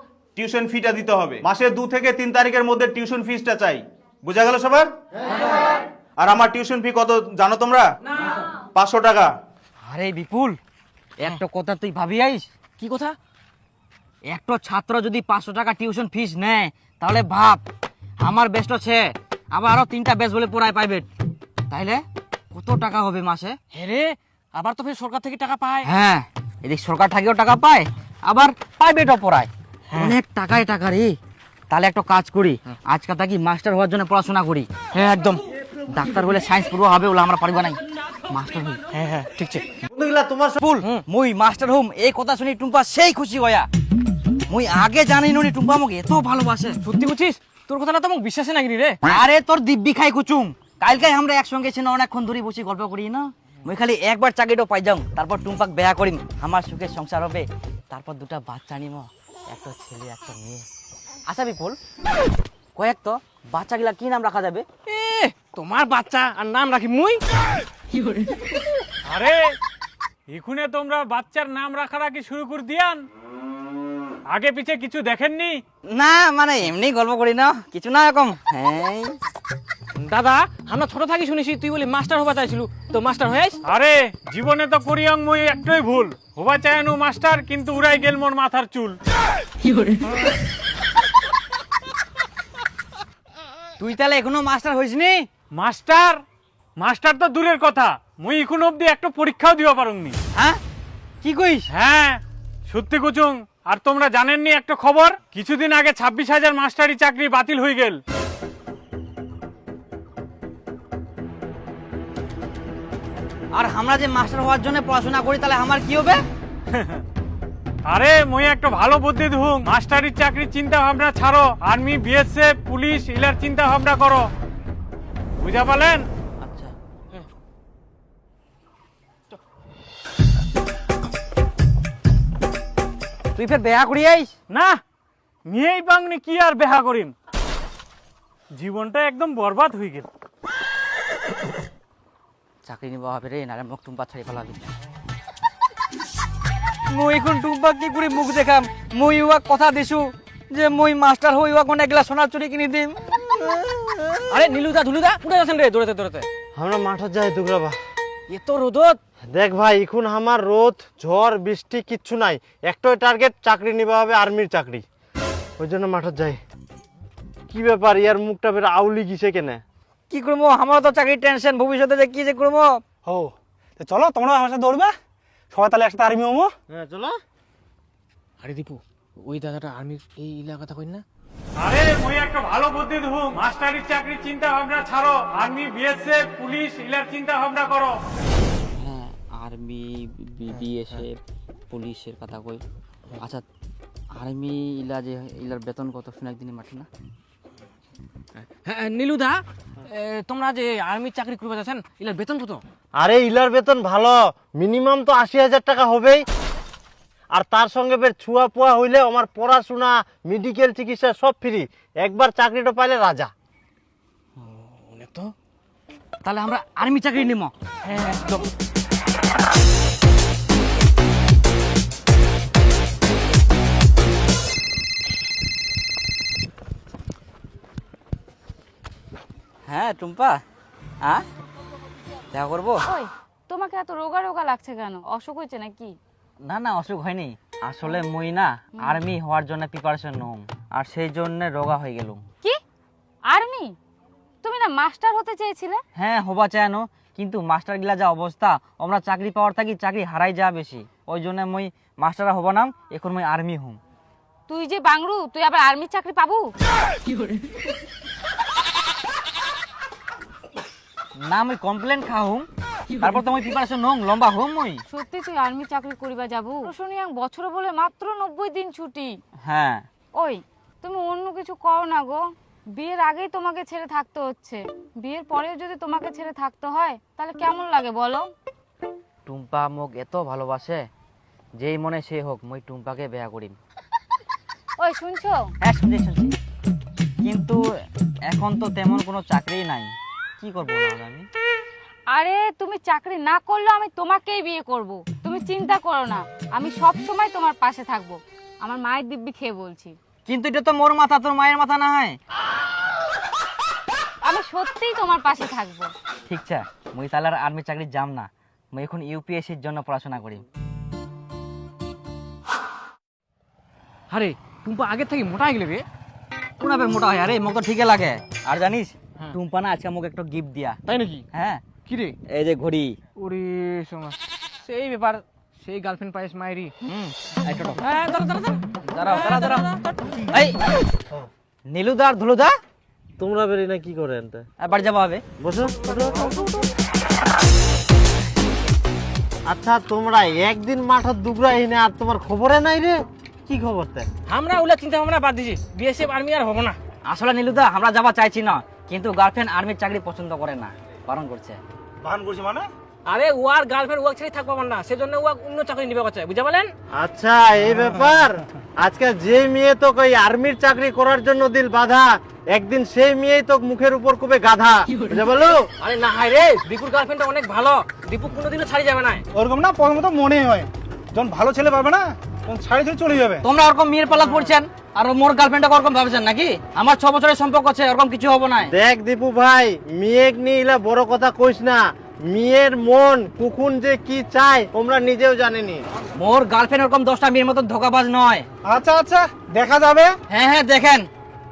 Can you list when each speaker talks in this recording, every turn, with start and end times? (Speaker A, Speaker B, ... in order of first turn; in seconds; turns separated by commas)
Speaker A: 0.3-4.9, Speaker A: 6.2-7.8, Speaker A: 8.7-9.3, Speaker B: 9.8-10.6, Speaker B: 11.2-12.5, Speaker C: 12.8-13.1, Speaker B: 14.3-17.6, Speaker B: 18.2-21.1, Speaker B: 21.7-23.6, Speaker C: 23.7-25.8, Speaker B: 25.8-31.2, Speaker B: 31.7-34.7, Speaker C: 35.0-35.4, Speaker B: 35.9-38.8, Speaker C: 38.9-39.6, Speaker D: 39.9-40.6, Speaker B: 40.6-43.7, Speaker B: 44.5-46.8, Speaker C: 46.9-49.0, Speaker B: 49.0-60.6, Speaker B: 61.3-61.8, Speaker B: 62.8-64.6, Speaker C: 64.9-67.2, Speaker E: 69.1-69.5, Speaker E: 70.3-73.0, Speaker E: 74.3-75.6, Speaker B: 75.9-79.2, Speaker C: 80.0-83.6, Speaker E: 83.7-89.0, Speaker B: 93.8-95.3, Speaker E: 95.6-96.2, Speaker E: 96.8-100.2, Speaker B: 100.3-100.6, Speaker B: 101.2-101.7, Speaker E: 101.8-108.0, Speaker B: 113.5-116.2, Speaker E: 117.9-124.3, Speaker E: 125.4-126.1, Speaker B: 126.4-126.7, Speaker B: 133.3-134.3, Speaker E: 134.5-134.8, Speaker E: 135.5-137.1, Speaker E: 138.6-140.1, Speaker B: 142.6-144.7, Speaker B: 146.9-154.2, Speaker C: 154.3-156.2, Speaker D: 156.5-157.8, Speaker C: 158.3-159.0, Speaker D: 159.3-164.8, Speaker D: 165.6-166.4, Speaker D: 167.5-169.6, Speaker B: 170.1-172.8, Speaker F: 173.1-174.9, Speaker F: 175.5-176.5, Speaker D: 176.7-177.2, Speaker C: 178.4-181.0, Speaker E: 181.6-187.9, Speaker B: 188.7-191.2, Speaker B: 191.7-192.6, Speaker B: 193.2-193.4, Speaker B: 194.1-196.9, Speaker C: 198.7-202.6, Speaker D: 202.9-206.2, Speaker D: 207.3-213.3, Speaker C: 214.5-215.3, Speaker B: 216.2-217.5, Speaker C: 217.9-218.4, Speaker B: 229.7-230.4, Speaker B: 232.3-232.8, Speaker G: 232.9-235.9, Speaker B: 236.4-242.2, Speaker G: 243.3-243.7, Speaker G: 244.4-245.8, Speaker B: 245.9-253.8, Speaker G: 254.5-256.5, Speaker B: 261.2-262.5, Speaker B: 263.0-264.8, Speaker G: 264.9-269.1, Speaker B: 269.4-269.9, Speaker G: 270.1-278.3, Speaker B: 279.2-280.8, Speaker B: 281.6-283.6, Speaker G: 284.8-285.5, Speaker B: 285.6-286.3, Speaker B: 287.2-287.6, Speaker B: 288.3-291.3, Speaker G: 292.1-300.0, Speaker B: 300.2-302.2, Speaker G: 304.2-305.9, Speaker B: 306.3-310.4, Speaker C: 314.1-315.8, Speaker B: 316.6-320.8, Speaker C: 320.9-321.2, Speaker B: 321.3-321.6, Speaker C: 321.9-322.1, Speaker B: 322.3-323.0, Speaker C: 323.2-326.7, Speaker B: 326.8-327.8, Speaker C: 328.0-328.6, Speaker B: 328.8-329.7, Speaker B: 330.3-330.6, Speaker B: 331.7-332.6, Speaker D: 333.2-334.4, Speaker B: 334.6-335.2, Speaker D: 335.4-336.4, Speaker D: 339.4-344.1, Speaker C: 344.3-346.8, Speaker B: 347.0-351.6, Speaker F: 352.0-352.6, Speaker C: 353.1-356.7, Speaker D: 356.9-365.6, Speaker C: 365.8-369.2, Speaker F: 369.3-373.4, Speaker B: 373.4-378.7, Speaker D: 378.7-385.8, Speaker B: 386.1-388.5, Speaker F: 388.6-390.1, Speaker B: 390.3-391.1